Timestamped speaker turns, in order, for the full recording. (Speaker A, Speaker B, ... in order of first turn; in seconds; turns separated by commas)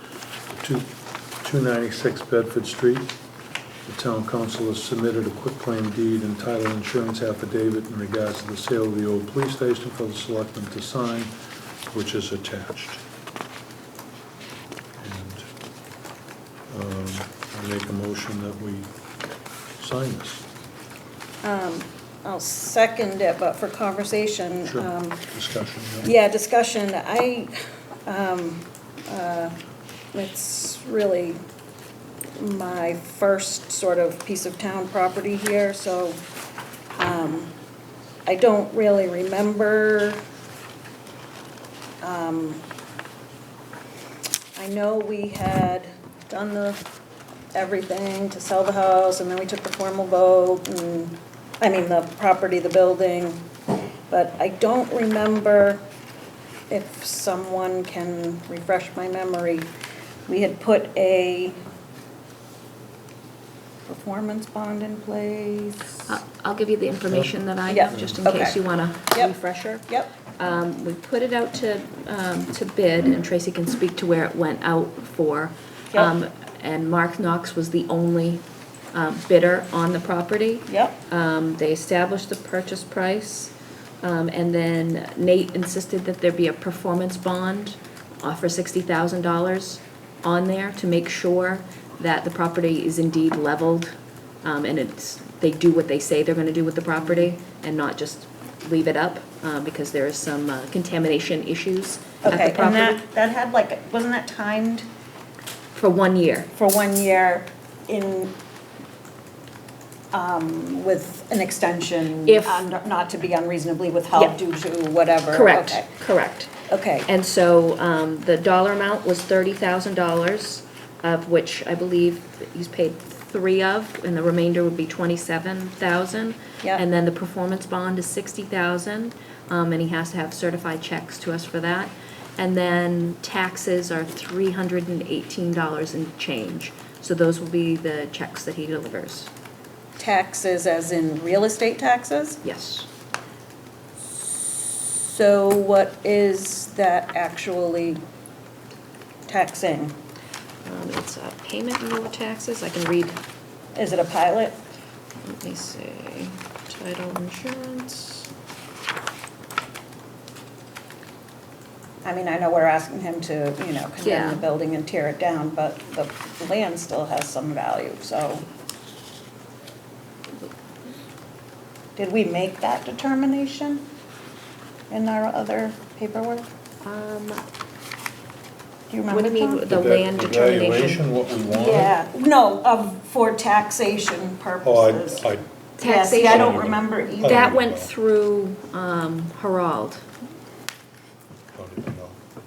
Speaker A: 0.5-0.9, Speaker A: 1.4-3.1, Speaker A: 3.9-11.3, Speaker A: 11.9-13.0, Speaker A: 15.0-15.5, Speaker A: 16.7-18.9, Speaker A: 19.8-20.4, Speaker B: 21.4-25.2, Speaker A: 24.7-26.1, Speaker B: 26.0-29.5, Speaker B: 30.1-31.4, Speaker B: 32.4-36.2, Speaker B: 36.9-37.5, Speaker B: 38.3-40.2, Speaker B: 42.0-42.6, Speaker B: 44.5-46.8, Speaker B: 47.5-53.4, Speaker B: 54.1-55.8, Speaker B: 56.7-59.7, Speaker B: 60.3-61.6, Speaker B: 63.9-66.1, Speaker C: 66.1-103.0, Speaker B: 67.7-68.6, Speaker A: 67.9-68.2, Speaker B: 69.1-69.3, Speaker B: 80.7-81.0, Speaker B: 102.2-104.9, Speaker C: 105.7-106.5, Speaker B: 106.5-108.3, Speaker B: 110.1-115.9, Speaker C: 112.2-112.7, Speaker C: 115.3-116.5, Speaker B: 116.7-117.1, Speaker C: 117.1-139.3, Speaker B: 140.0-142.4, Speaker C: 142.4-142.9, Speaker B: 144.3-148.0, Speaker B: 149.3-149.9, Speaker C: 150.6-153.2, Speaker B: 153.7-154.6, Speaker C: 155.2-158.3, Speaker B: 162.0-168.4, Speaker C: 164.0-164.4, Speaker B: 171.9-173.8, Speaker B: 174.9-176.5, Speaker C: 176.8-177.4, Speaker B: 178.9-179.7, Speaker C: 179.1-181.1, Speaker A: 179.7-181.9, Speaker B: 181.5-185.2, Speaker A: 184.6-185.4, Speaker C: 185.8-190.0, Speaker B: 185.8-187.5, Speaker A: 186.2-187.9, Speaker A: 191.5-192.2